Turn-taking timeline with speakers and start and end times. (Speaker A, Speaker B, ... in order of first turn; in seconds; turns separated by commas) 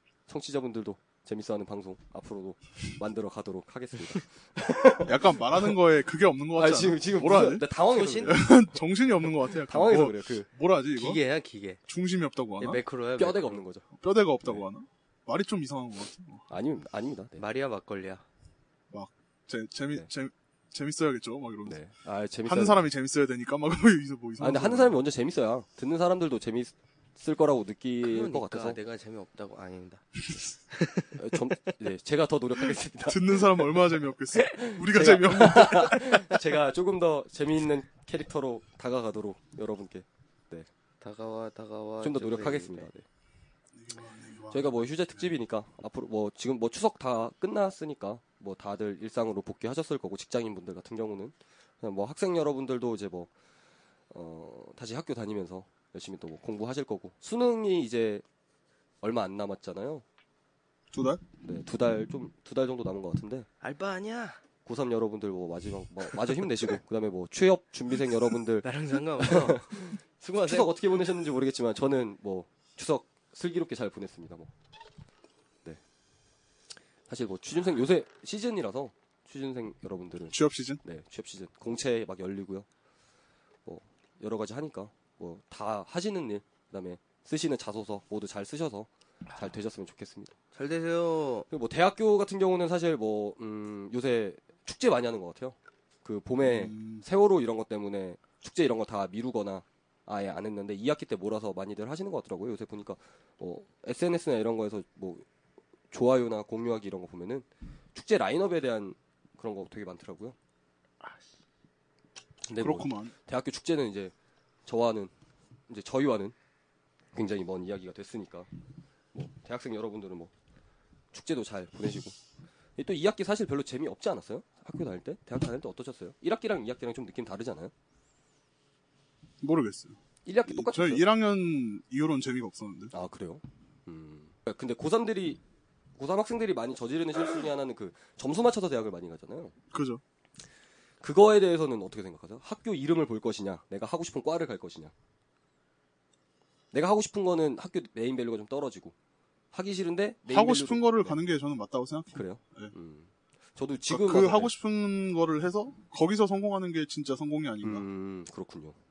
Speaker A: 0.3-5.7, Speaker B: 5.0-7.7, Speaker A: 6.5-8.5, Speaker C: 7.9-8.5, Speaker B: 8.2-11.2, Speaker A: 9.7-10.5, Speaker C: 10.9-11.8, Speaker B: 11.9-12.8, Speaker C: 12.6-13.6, Speaker A: 13.2-13.8, Speaker B: 13.9-16.4, Speaker A: 16.5-17.4, Speaker C: 17.4-18.2, Speaker B: 18.9-21.8, Speaker A: 21.6-22.8, Speaker B: 22.4-25.0, Speaker A: 24.4-28.8, Speaker C: 28.0-31.3, Speaker A: 31.1-33.7, Speaker B: 33.1-36.1, Speaker A: 34.5-40.7, Speaker C: 41.0-42.9, Speaker A: 42.0-43.0, Speaker B: 43.7-45.3, Speaker A: 44.5-53.3, Speaker A: 54.1-58.2, Speaker A: 59.0-60.0, Speaker B: 60.9-61.2, Speaker A: 61.4-63.5, Speaker C: 63.6-64.4, Speaker A: 64.6-68.7, Speaker C: 68.6-70.7, Speaker A: 69.2-74.5, Speaker A: 77.1-82.7, Speaker B: 80.3-80.8, Speaker A: 83.7-90.3, Speaker C: 90.5-91.5, Speaker A: 91.5-105.2, Speaker B: 96.4-97.0, Speaker A: 105.9-110.3, Speaker A: 112.5-114.1, Speaker B: 112.6-113.1, Speaker A: 114.7-115.1, Speaker A: 115.7-116.3, Speaker A: 117.1-118.5, Speaker A: 119.1-120.3, Speaker A: 121.1-122.2, Speaker A: 122.8-127.7, Speaker B: 129.4-132.9, Speaker A: 130.2-131.0, Speaker A: 132.9-135.4, Speaker A: 136.0-139.5, Speaker B: 139.7-140.0, Speaker A: 141.0-144.9, Speaker A: 146.7-148.9, Speaker A: 149.5-151.2, Speaker B: 150.3-152.7, Speaker A: 152.1-154.5, Speaker B: 153.9-157.8, Speaker A: 157.6-158.8